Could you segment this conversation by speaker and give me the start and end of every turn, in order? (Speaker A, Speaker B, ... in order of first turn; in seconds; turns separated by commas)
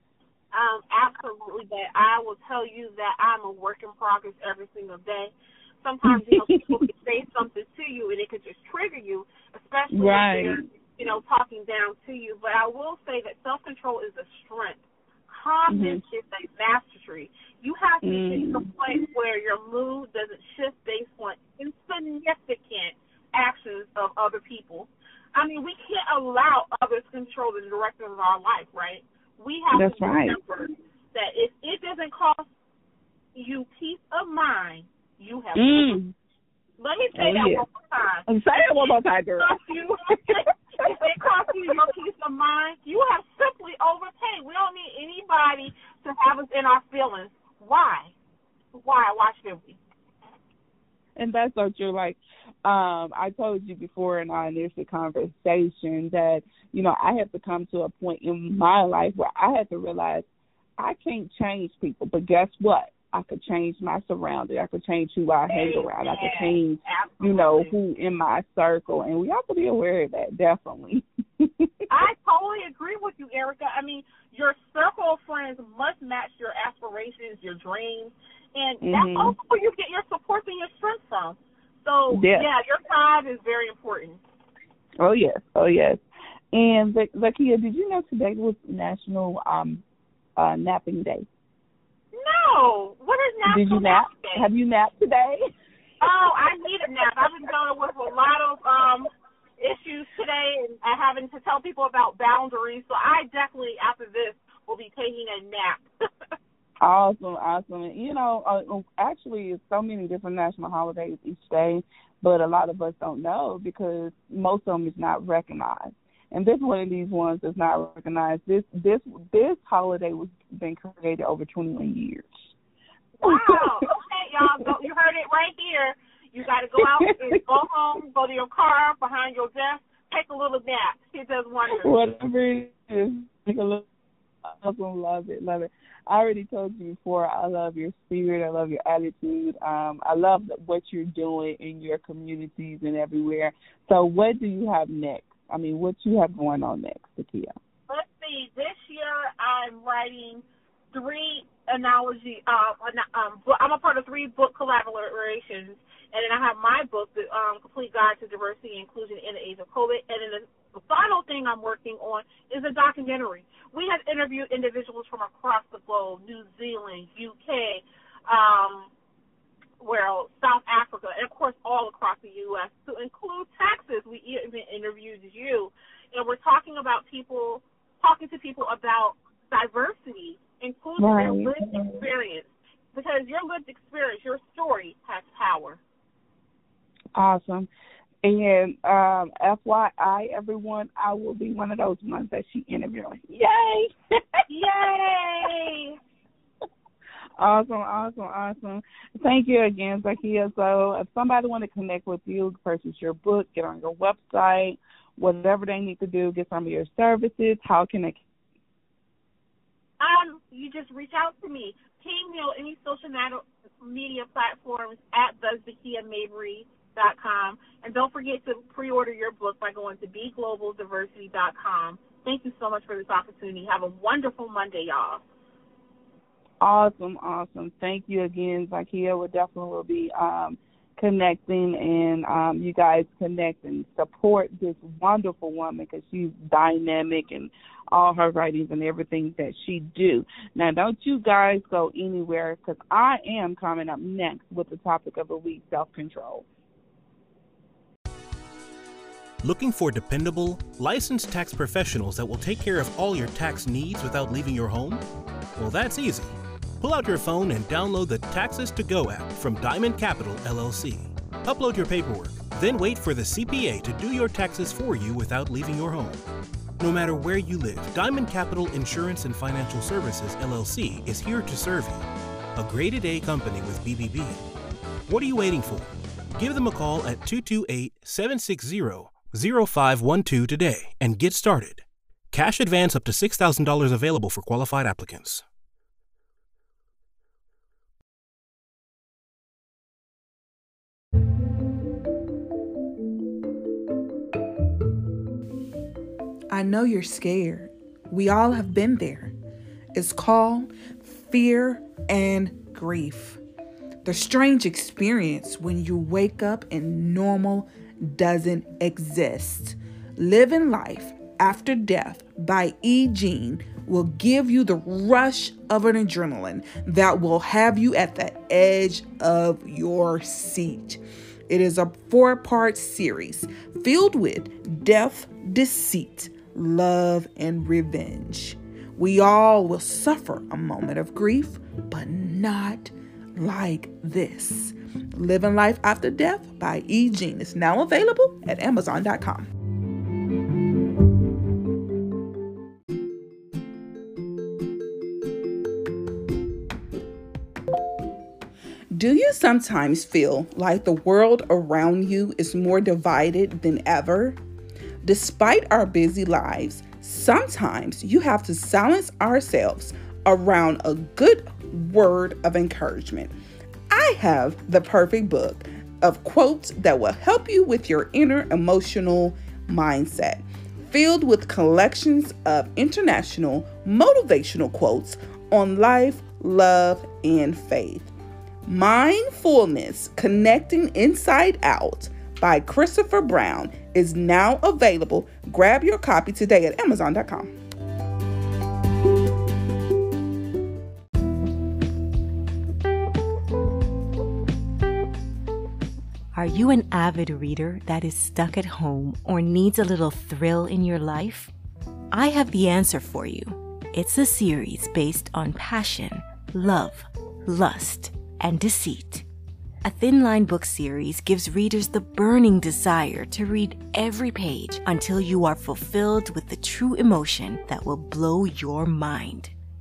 Speaker A: 0.5-32.5, Speaker B: 6.1-6.8, Speaker B: 9.9-10.6, Speaker B: 15.7-16.0, Speaker B: 18.0-18.7, Speaker B: 29.7-30.4, Speaker A: 33.4-36.0, Speaker B: 35.5-36.1, Speaker A: 36.8-38.3, Speaker B: 37.1-37.7, Speaker B: 38.3-39.6, Speaker A: 38.8-48.1, Speaker B: 40.1-41.0, Speaker A: 48.8-49.8, Speaker B: 51.2-60.3, Speaker B: 60.8-71.7, Speaker A: 65.5-67.7, Speaker A: 71.9-84.2, Speaker B: 78.8-79.3, Speaker B: 82.1-82.5, Speaker B: 85.0-86.0, Speaker B: 86.5-89.8, Speaker B: 90.4-91.3, Speaker A: 92.1-94.5, Speaker B: 93.5-95.5, Speaker A: 96.0-105.8, Speaker B: 106.8-122.3, Speaker A: 123.2-132.0, Speaker B: 123.2-123.8, Speaker B: 126.8-127.4, Speaker B: 131.8-133.8, Speaker B: 134.4-147.5, Speaker A: 147.9-168.9, Speaker A: 169.8-185.8, Speaker B: 181.0-182.1, Speaker B: 187.2-187.7, Speaker B: 188.2-194.4, Speaker A: 194.5-196.0, Speaker B: 197.4-208.2, Speaker A: 210.0-225.2, Speaker B: 226.6-246.5, Speaker C: 249.4-255.0, Speaker C: 255.6-266.2, Speaker C: 266.8-274.4, Speaker C: 275.1-285.4, Speaker D: 296.5-299.3, Speaker D: 299.9-303.4, Speaker D: 304.0-339.5, Speaker D: 348.9-354.4, Speaker D: 355.0-363.3, Speaker D: 363.9-378.1, Speaker D: 378.7-387.5, Speaker E: 396.3-401.5, Speaker E: 402.1-409.2, Speaker E: 409.8-419.5